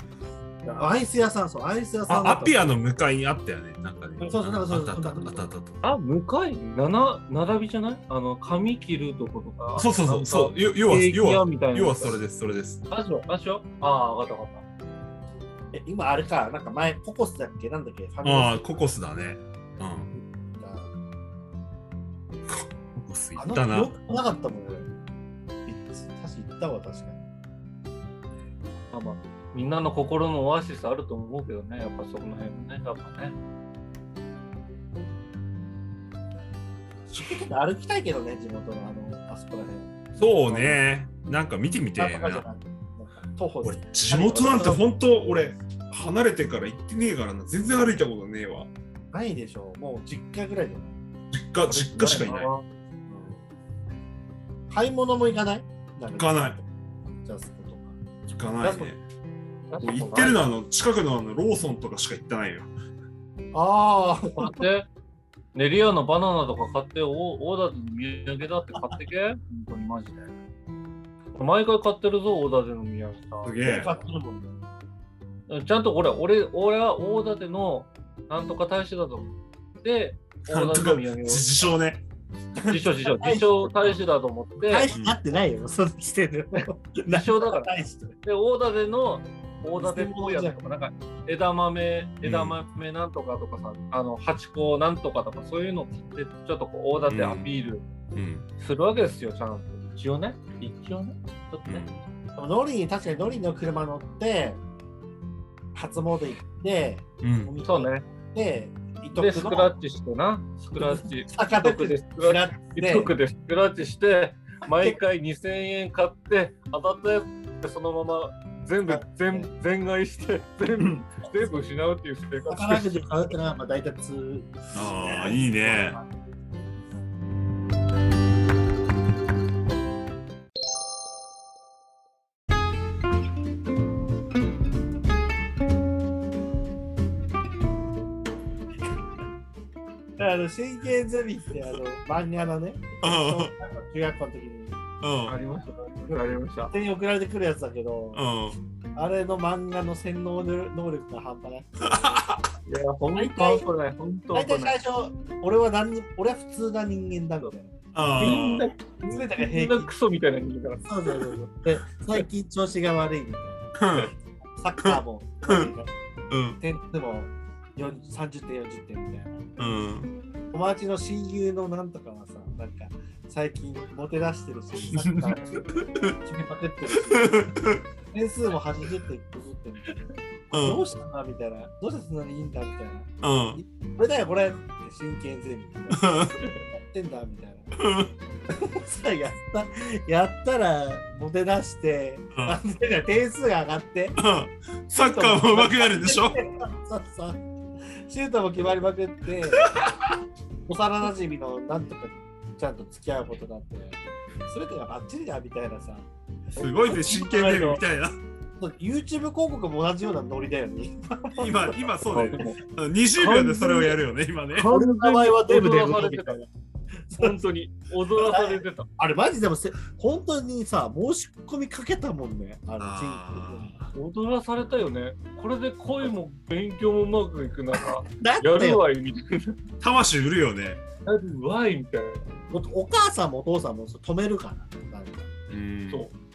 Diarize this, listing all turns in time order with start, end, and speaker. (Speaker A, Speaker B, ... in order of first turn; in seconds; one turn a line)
Speaker A: 0.7-2.6
Speaker B: 2.1-5.8
Speaker A: 4.2-5.5
Speaker C: 5.8-12.2
Speaker B: 9.8-12.8
Speaker C: 12.9-14.6
Speaker A: 15.7-18.8
Speaker B: 18.2-20.1
Speaker A: 20.6-20.9
Speaker B: 22.5-23.9
Speaker A: 23.4-24.9
Speaker A: 25.7-27.2
Speaker C: 28.9-33.4
Speaker B: 37.1-37.4
Speaker A: 37.2-40.8
Speaker B: 40.2-42.5
Speaker A: 42.0-44.8
Speaker B: 43.6-48.7
Speaker A: 49.1-51.0
Speaker B: 51.3-52.5
Speaker C: 51.7-52.6
Speaker A: 53.1-53.5
Speaker A: 54.7-56.5
Speaker B: 56.2-56.6
Speaker A: 57.2-58.9
Speaker B: 58.3-59.0
Speaker C: 59.7-60.5
Speaker B: 59.8-62.7
Speaker A: 63.5-64.6
Speaker C: 64.4-64.9
Speaker C: 65.5-70.3
Speaker C: 71.3-73.6
Speaker B: 73.4-73.9
Speaker A: 73.6-74.6
Speaker C: 75.5-81.5
Speaker B: 80.5-82.0
Speaker C: 82.7-84.9
Speaker A: 82.7-84.0
Speaker A: 84.6-88.2
Speaker B: 84.9-85.2
Speaker C: 87.1-87.7
Speaker C: 88.2-97.8
Speaker A: 89.8-90.6
Speaker B: 92.2-92.6
Speaker B: 97.1-97.5
Speaker B: 98.2-98.5
Speaker C: 98.6-101.9
Speaker B: 101.7-102.0
Speaker A: 102.4-104.6
Speaker A: 105.7-109.8
Speaker B: 107.2-107.5
Speaker C: 107.6-108.0
Speaker C: 109.2-123.0
Speaker A: 110.8-113.2
Speaker A: 114.7-115.0
Speaker A: 118.9-119.5
Speaker A: 122.5-126.1
Speaker B: 124.7-126.0
Speaker A: 140.2-144.8
Speaker B: 143.0-143.5
Speaker B: 145.0-145.3
Speaker C: 145.3-146.7
Speaker A: 146.1-148.2
Speaker B: 148.1-148.6
Speaker A: 148.9-152.2
Speaker B: 151.8-152.5
Speaker C: 152.7-154.8
Speaker A: 153.1-153.7
Speaker A: 154.3-158.4
Speaker B: 157.9-158.7
Speaker C: 158.2-160.8
Speaker A: 159.0-159.9
Speaker A: 160.8-163.8
Speaker B: 163.8-164.1
Speaker A: 164.6-165.9
Speaker B: 164.8-165.7
Speaker B: 166.3-166.6
Speaker A: 166.6-169.5
Speaker B: 169.6-170.1
Speaker A: 170.5-177.6
Speaker B: 174.9-176.2
Speaker B: 177.0-177.8
Speaker A: 178.1-186.2
Speaker B: 180.5-180.8
Speaker B: 183.2-183.6
Speaker B: 185.9-186.4
Speaker C: 186.4-186.7
Speaker A: 186.7-187.7
Speaker B: 187.8-188.1
Speaker A: 188.5-194.2
Speaker B: 194.2-196.4
Speaker A: 195.0-197.4
Speaker A: 197.9-199.8
Speaker B: 199.6-199.9
Speaker A: 200.7-207.8
Speaker B: 206.6-208.2
Speaker C: 207.0-207.8
Speaker A: 208.6-211.8
Speaker B: 211.4-214.7
Speaker C: 212.1-212.6
Speaker C: 213.2-214.0
Speaker A: 214.6-216.5
Speaker C: 214.6-216.4
Speaker A: 217.1-217.4
Speaker C: 217.2-218.9
Speaker A: 218.2-223.7
Speaker B: 222.8-223.9
Speaker C: 223.9-229.6
Speaker A: 228.1-228.8
Speaker B: 229.8-230.8
Speaker C: 231.1-232.3
Speaker A: 232.5-235.3
Speaker B: 235.5-236.1